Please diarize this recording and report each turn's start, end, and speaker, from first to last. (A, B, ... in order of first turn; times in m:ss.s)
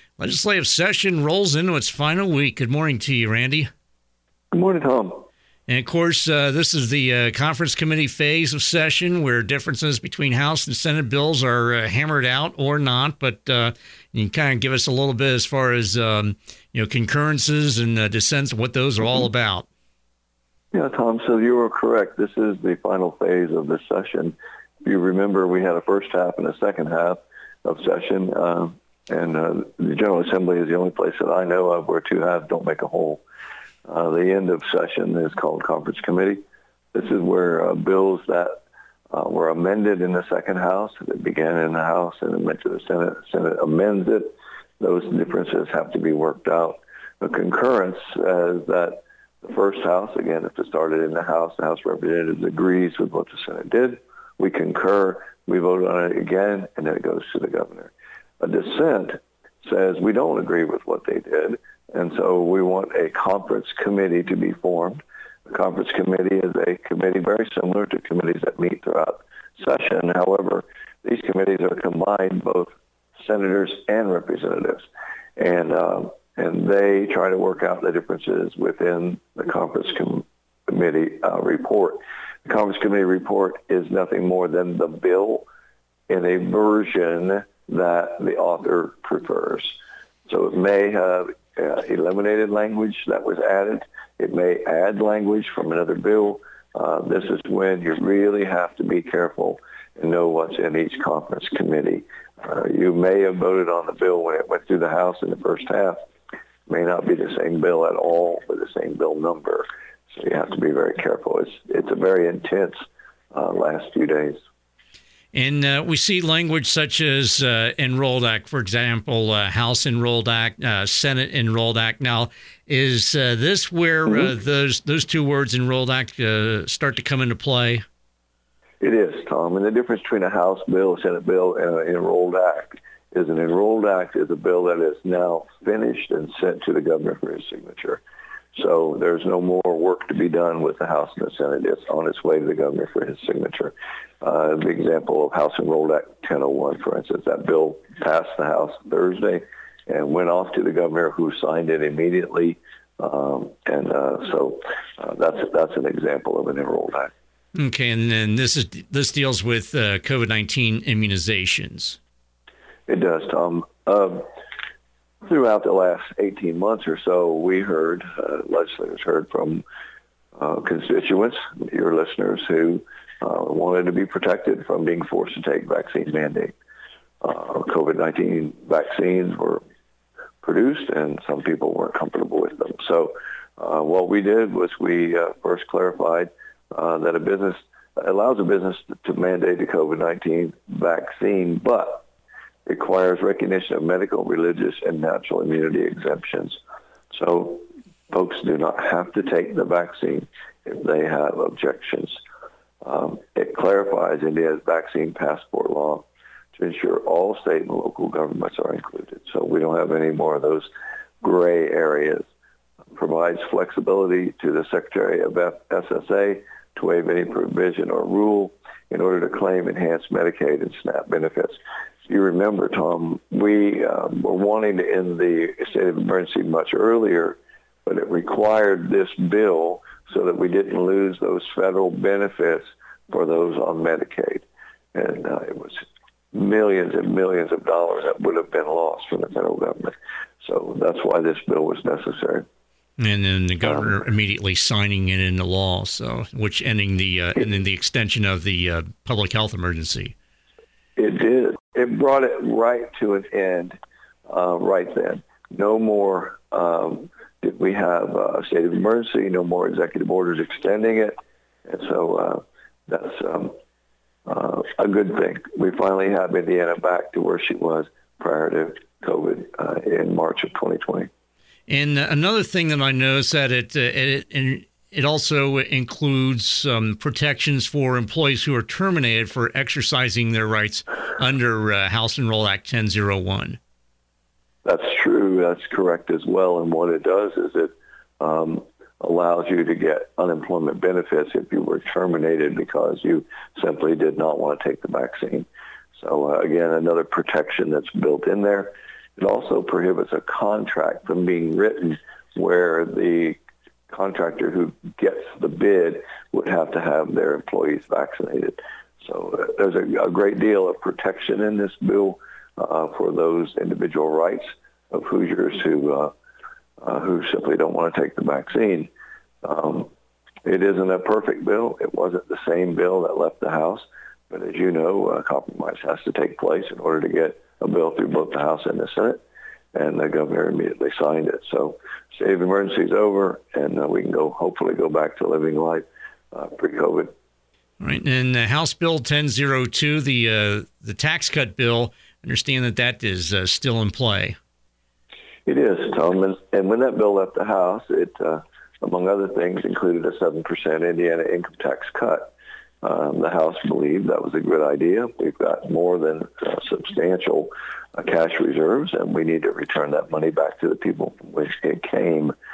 0:00.2-0:03.7 A
0:04.5-0:05.2 B
0:05.7-0:19.7 A
0:20.7-0:33.2 B
0:33.9-0:36.4 B
0:36.9-0:38.6 B
0:39.1-1:14.9 B
1:15.4-1:25.5 B
1:26.1-1:46.0 B
1:46.7-1:54.4 B
1:55.3-2:07.8 A
2:08.8-2:18.0 B
2:18.5-2:37.1 B
2:37.6-2:42.0 A
2:42.9-2:44.3 B
2:45.2-2:49.6 B
2:50.4-2:56.6 B
2:57.2-2:59.6 B
3:00.4-3:12.0 B
3:12.7-3:16.6 B
3:17.1-3:22.2 B
3:22.8-3:30.7 B
3:31.2-3:32.3 B
3:33.0-4:02.5 B
4:03.0-4:10.2 A
4:03.6-4:03.9 B
4:11.0-4:13.8 B
4:14.3-4:23.6 B
4:24.3-4:31.1 B
4:31.7-4:43.6 A
4:44.6-5:16.1 B
5:16.8-5:18.9 B
5:19.4-5:19.9 B
5:20.4-5:37.1 B
5:37.8-5:44.4 A
5:45.5-6:02.4 B